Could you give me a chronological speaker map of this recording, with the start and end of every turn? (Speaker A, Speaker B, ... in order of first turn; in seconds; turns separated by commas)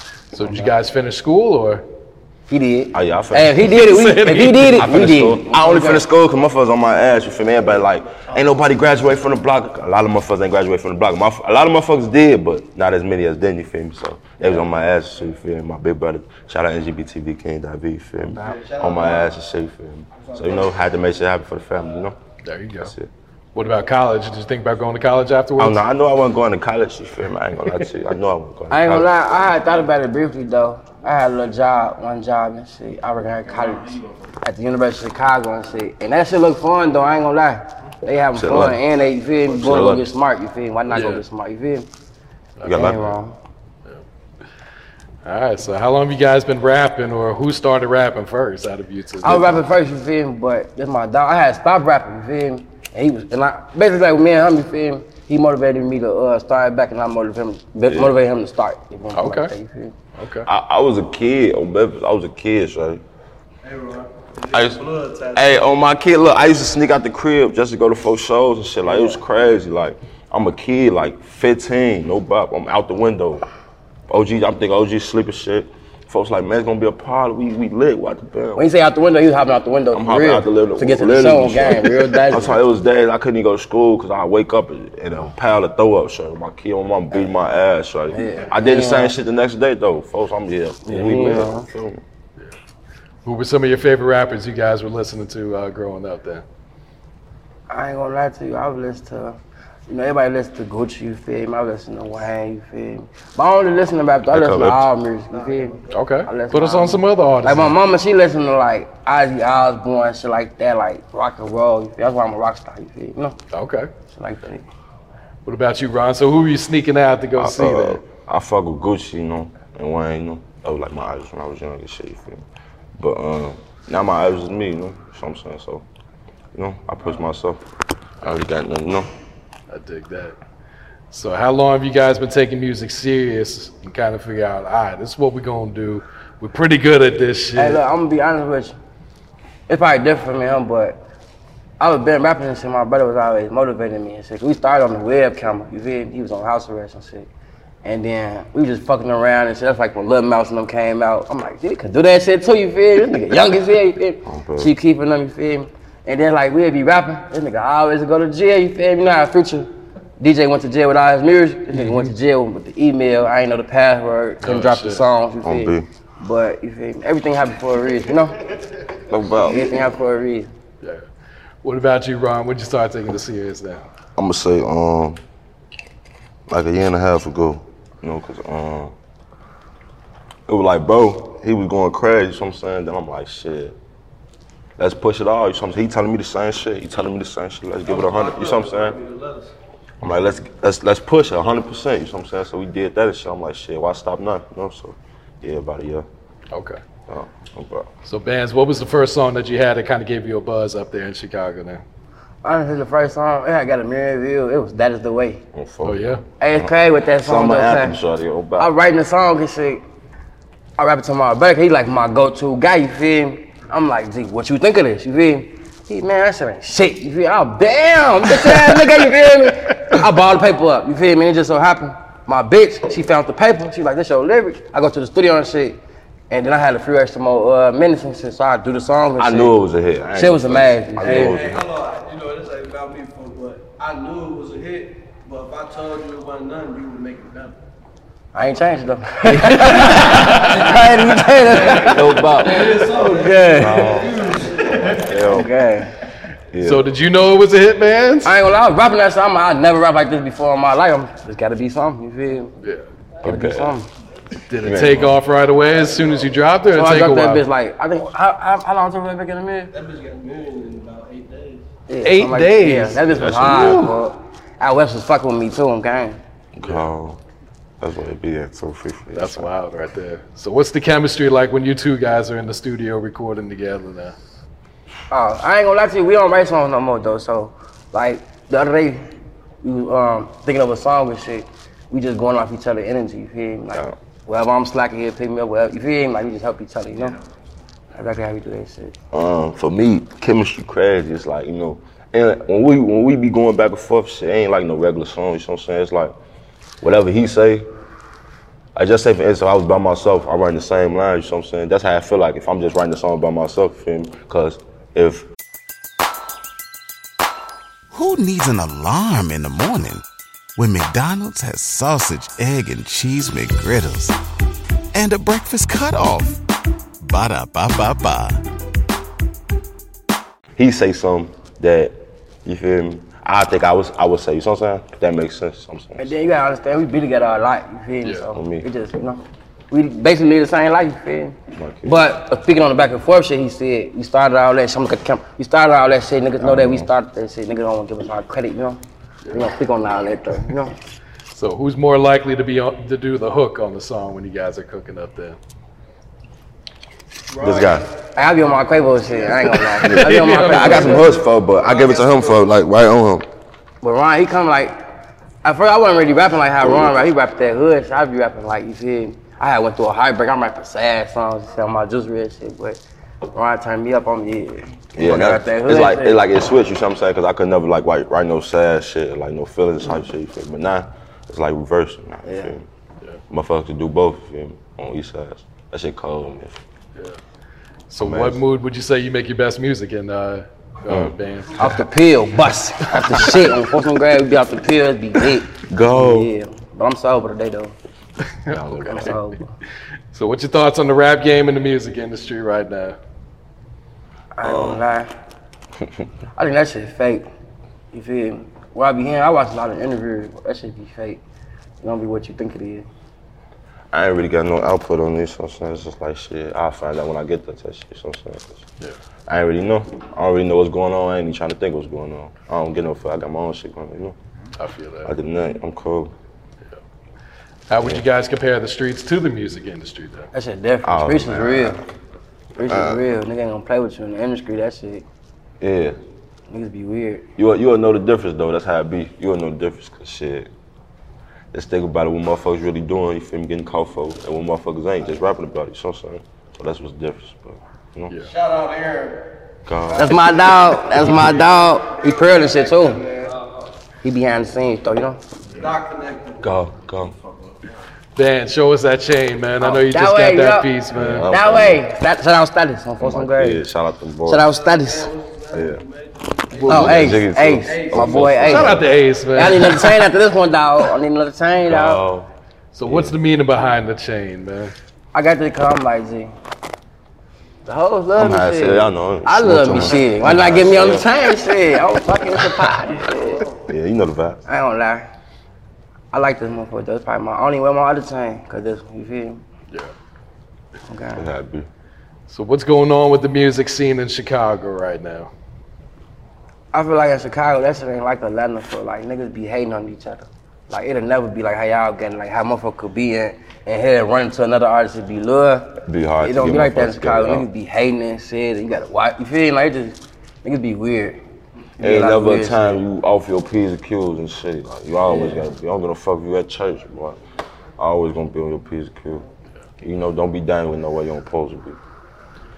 Speaker A: 0.3-1.9, Speaker B: 0.4-0.7, Speaker B: 2.5-6.1, Speaker C: 2.9-3.8, Speaker A: 3.7-4.9, Speaker C: 4.8-22.2, Speaker D: 18.4-19.4, Speaker D: 20.2-20.8, Speaker A: 22.4-22.9, Speaker C: 22.8-23.1, Speaker A: 23.6-25.8, Speaker C: 25.6-29.1, Speaker B: 28.7-41.9, Speaker D: 33.4-34.3, Speaker C: 38.3-38.8, Speaker C: 39.5-40.1, Speaker A: 40.9-41.2, Speaker A: 42.6-43.0, Speaker C: 42.6-43.1, Speaker B: 42.7-43.4, Speaker A: 45.2-49.6, Speaker B: 49.2-60.0, Speaker C: 57.9-58.2, Speaker A: 59.1-59.5, Speaker A: 60.2-60.5, Speaker C: 60.5-63.0, Speaker D: 63.6-65.7, Speaker C: 64.5-73.5, Speaker B: 68.9-69.2, Speaker C: 74.1-78.7, Speaker B: 78.6-82.6, Speaker C: 79.9-92.0, Speaker B: 88.1-89.2, Speaker B: 90.9-91.7, Speaker A: 93.2-96.4, Speaker B: 97.7-113.4, Speaker C: 104.3-104.9, Speaker D: 105.3-106.0, Speaker A: 105.9-107.8, Speaker A: 113.5-113.9, Speaker B: 114.1-114.7, Speaker A: 115.5-118.0, Speaker C: 117.3-122.5, Speaker C: 123.0-125.9, Speaker C: 126.5-127.6, Speaker C: 128.2-129.1, Speaker A: 129.7-130.4, Speaker A: 131.1-137.8, Speaker B: 137.6-138.8, Speaker B: 139.7-141.0, Speaker B: 141.8-147.3, Speaker B: 147.8-168.4, Speaker C: 154.2-154.7, Speaker A: 161.8-162.1, Speaker A: 164.4-165.0, Speaker C: 165.4-165.9, Speaker C: 169.1-169.9, Speaker B: 169.4-170.5, Speaker A: 171.6-173.8, Speaker C: 174.2-175.2, Speaker C: 176.5-178.9, Speaker C: 180.5-183.8, Speaker C: 184.8-189.0, Speaker D: 187.9-189.6, Speaker C: 190.0-196.1, Speaker A: 196.5-196.8, Speaker C: 197.1-197.9, Speaker A: 198.1-201.8, Speaker B: 202.4-205.4, Speaker C: 205.5-208.7, Speaker A: 205.8-206.2, Speaker B: 206.4-208.0, Speaker B: 208.6-209.8, Speaker B: 210.8-225.8, Speaker B: 226.3-229.6, Speaker C: 229.2-231.7, Speaker B: 230.2-231.4, Speaker D: 231.0-237.6, Speaker B: 238.3-244.0, Speaker D: 239.8-245.2, Speaker C: 241.7-243.0, Speaker C: 243.6-245.5, Speaker B: 245.2-245.9, Speaker C: 246.5-246.9, Speaker A: 246.6-248.3, Speaker B: 248.2-252.5, Speaker C: 253.2-253.8, Speaker B: 253.2-253.9, Speaker A: 254.5-257.4, Speaker C: 254.6-255.2, Speaker B: 256.7-259.7, Speaker D: 259.7-261.7, Speaker B: 261.9-266.2, Speaker A: 262.0-263.8, Speaker C: 263.1-263.9, Speaker C: 266.6-267.2, Speaker C: 267.8-269.5, Speaker A: 269.1-274.2, Speaker B: 275.1-279.1, Speaker B: 279.6-287.2, Speaker B: 287.9-289.0, Speaker C: 289.1-296.1, Speaker C: 296.8-297.7, Speaker C: 298.8-305.3, Speaker E: 307.9-310.0, Speaker E: 310.6-314.1, Speaker E: 314.9-316.4, Speaker E: 317.0-318.4, Speaker C: 320.6-326.1, Speaker B: 326.0-338.8, Speaker C: 328.3-328.7, Speaker C: 331.6-332.1, Speaker C: 336.4-336.9, Speaker B: 339.3-340.8, Speaker A: 341.3-345.4, Speaker D: 347.3-349.6, Speaker C: 347.4-347.9, Speaker B: 348.1-351.1, Speaker A: 349.7-351.1, Speaker C: 349.8-353.3, Speaker D: 350.9-352.5, Speaker B: 353.8-354.8, Speaker B: 355.4-362.8, Speaker C: 356.6-357.0, Speaker B: 363.3-366.2, Speaker C: 364.9-372.7, Speaker B: 372.3-372.6, Speaker C: 373.3-376.6, Speaker A: 377.9-381.8, Speaker C: 378.0-378.4, Speaker C: 380.9-381.2, Speaker B: 381.6-387.8, Speaker C: 385.7-386.3, Speaker A: 388.4-389.2, Speaker C: 388.5-389.2, Speaker B: 388.9-389.6, Speaker A: 390.1-393.0, Speaker B: 394.4-395.1, Speaker C: 394.4-394.8, Speaker B: 396.4-397.3, Speaker B: 397.9-401.2, Speaker B: 401.8-402.9, Speaker C: 403.9-408.7, Speaker C: 409.3-414.2, Speaker A: 414.6-415.1, Speaker C: 415.0-416.1, Speaker A: 417.7-420.3, Speaker C: 417.7-418.0, Speaker B: 420.3-421.8, Speaker C: 420.9-421.9, Speaker B: 422.6-425.1, Speaker C: 422.6-423.0, Speaker C: 425.6-426.0, Speaker B: 426.5-427.3, Speaker C: 427.4-430.5, Speaker C: 431.5-438.1, Speaker D: 438.2-443.6, Speaker C: 439.7-440.3, Speaker B: 440.0-443.0, Speaker B: 444.0-445.2, Speaker D: 445.5-447.6, Speaker C: 446.4-447.1, Speaker A: 448.2-451.3, Speaker B: 449.6-450.7, Speaker C: 450.9-451.8, Speaker B: 451.3-453.6, Speaker C: 453.0-454.5, Speaker B: 454.3-455.1, Speaker D: 454.4-458.5, Speaker C: 455.5-455.8, Speaker C: 456.6-458.9, Speaker B: 456.7-458.8, Speaker A: 458.4-460.0, Speaker B: 459.3-462.0, Speaker C: 461.7-462.3, Speaker A: 462.7-464.7, Speaker C: 462.9-463.2, Speaker B: 465.1-466.3, Speaker B: 467.7-473.4, Speaker C: 468.2-471.1, Speaker D: 473.1-473.4, Speaker C: 473.6-474.4, Speaker B: 474.5-475.1, Speaker B: 476.1-479.4, Speaker B: 480.9-481.3, Speaker C: 481.1-481.7, Speaker A: 482.3-485.3, Speaker B: 486.7-501.2, Speaker C: 495.9-497.5, Speaker B: 501.8-502.8, Speaker C: 501.8-507.2, Speaker B: 505.1-505.4, Speaker C: 507.8-509.3, Speaker C: 509.8-511.8